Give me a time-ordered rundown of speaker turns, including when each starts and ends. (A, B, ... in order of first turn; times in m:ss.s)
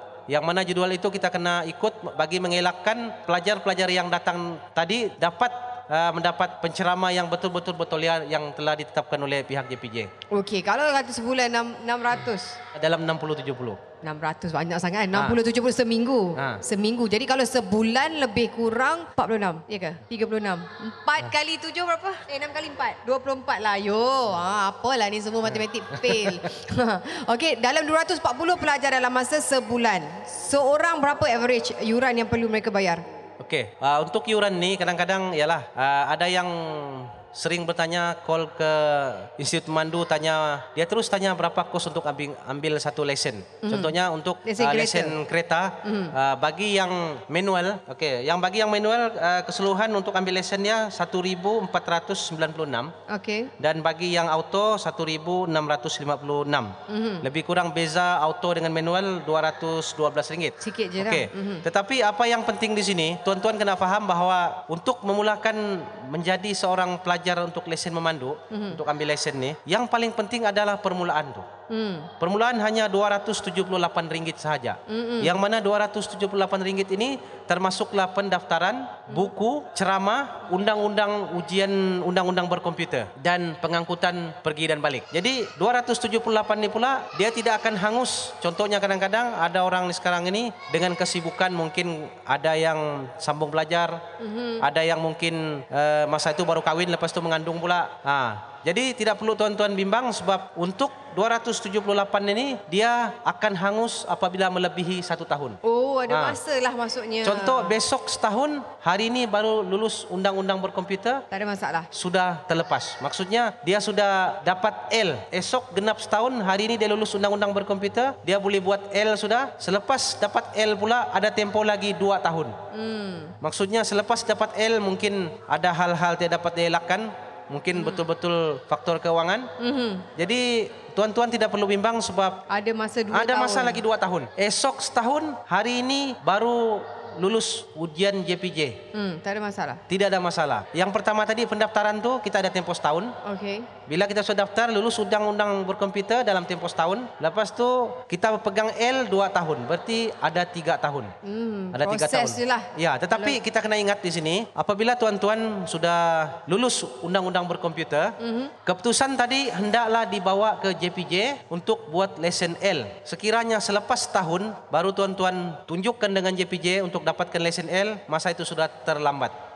0:00.3-0:10.1 A
0:10.3-0:12.6 B
0:12.7-0:13.8 A
0:14.0-0:33.0 B
0:16.4-0:16.6 A
0:25.9-0:26.4 A
0:33.4-0:52.9 A
0:43.6-0:45.2 B
0:45.8-0:46.1 B
0:53.1-0:53.5 B
0:53.6-1:11.5 A
0:56.9-0:57.3 B
1:00.6-1:01.6 B
1:08.5-1:08.8 B
1:11.7-1:12.1 B
1:12.2-1:34.0 A
1:14.9-1:15.4 B
1:34.2-1:34.6 B
1:34.6-1:45.6 A
1:45.6-1:47.8 B
1:46.1-1:46.4 A
1:47.2-1:51.2 A
1:51.3-1:51.9 B
1:51.9-2:02.6 A
2:02.7-2:03.4 B
2:03.4-2:09.5 A
2:07.7-2:08.0 B
2:09.6-2:10.1 B
2:10.2-2:12.4 A
2:12.5-2:13.8 B
2:13.1-2:18.8 A
2:18.9-2:19.8 B
2:19.9-2:23.1 A
2:23.2-2:23.7 B
2:23.9-2:31.1 A
2:31.2-2:33.4 B
2:31.7-2:38.1 A
2:38.2-2:38.5 B
2:38.6-2:49.3 A